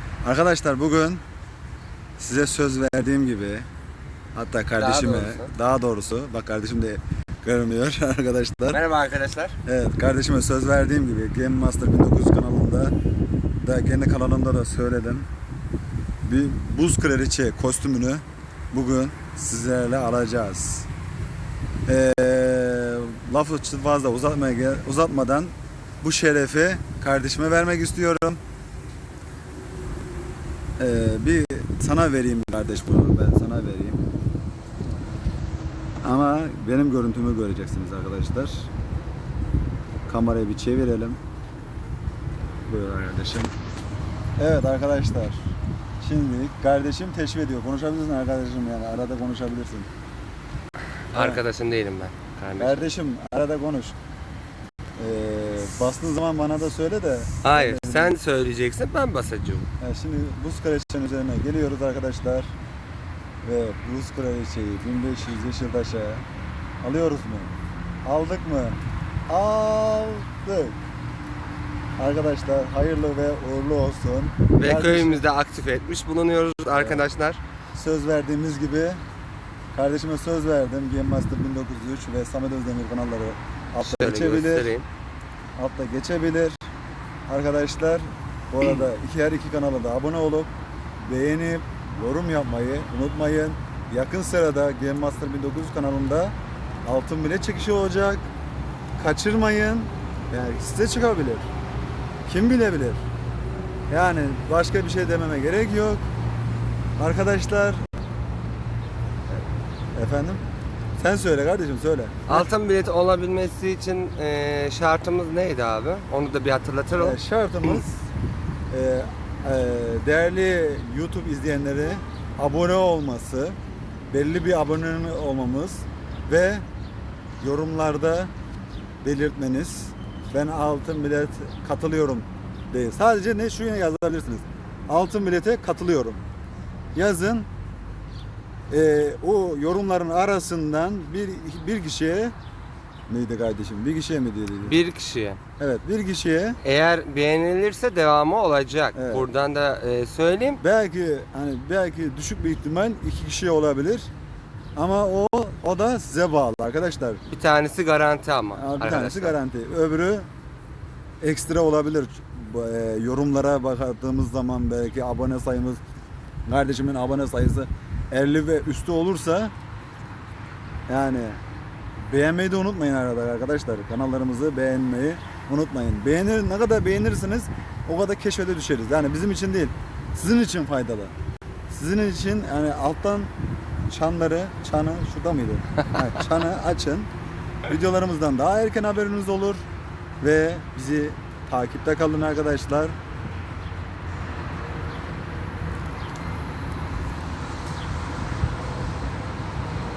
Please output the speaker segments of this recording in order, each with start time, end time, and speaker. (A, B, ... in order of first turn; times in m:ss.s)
0:00.2-0:01.2 A
0:02.2-0:03.7 A
0:04.3-0:08.8 A
0:04.7-0:05.5 B
0:08.7-0:09.6 B
0:09.6-0:12.9 A
0:13.6-0:15.3 A
0:16.2-0:20.9 A
0:21.9-0:28.4 A
0:30.8-0:34.0 A
0:36.0-0:38.7 A
0:40.1-0:41.2 A
0:42.7-0:43.5 A
0:44.4-0:45.5 A
0:46.0-0:49.9 A
0:51.1-0:52.8 B
0:51.1-0:51.4 A
0:52.6-0:54.0 A
0:55.0-0:58.2 A
0:57.4-0:59.7 B
0:59.8-1:02.5 A
1:03.4-1:06.2 A
1:06.8-1:07.5 A
1:08.0-1:10.8 A
1:12.0-1:15.2 A
1:14.5-1:17.4 B
1:16.7-1:17.0 A
1:17.7-1:19.0 A
1:19.7-1:24.7 A
1:23.8-1:24.9 B
1:25.6-1:26.7 A
1:27.3-1:30.5 A
1:31.0-1:38.3 A
1:39.0-1:41.5 A
1:42.2-1:43.0 A
1:43.9-1:46.0 A
1:47.0-1:47.8 A
1:49.9-1:50.4 A
1:51.0-1:52.5 A
1:52.3-1:57.8 B
1:57.0-1:58.0 A
1:58.7-2:03.6 A
2:04.1-2:06.6 A
2:07.4-2:08.3 A
2:09.0-2:16.2 A
2:16.9-2:17.5 A
2:18.7-2:22.3 A
2:23.1-2:24.8 A
2:24.6-2:25.4 B
2:25.6-2:26.6 A
2:26.6-2:30.6 B
2:28.9-2:29.2 A
2:30.6-2:34.1 A
2:34.8-2:37.2 A
2:37.3-2:39.4 B
2:38.5-2:40.3 A
2:41.2-2:45.8 A
2:46.5-2:49.5 A
2:50.9-2:51.4 A
2:52.0-3:01.1 A
3:01.7-3:03.3 A
3:03.9-3:07.1 A
3:07.7-3:09.6 A
3:10.2-3:12.9 A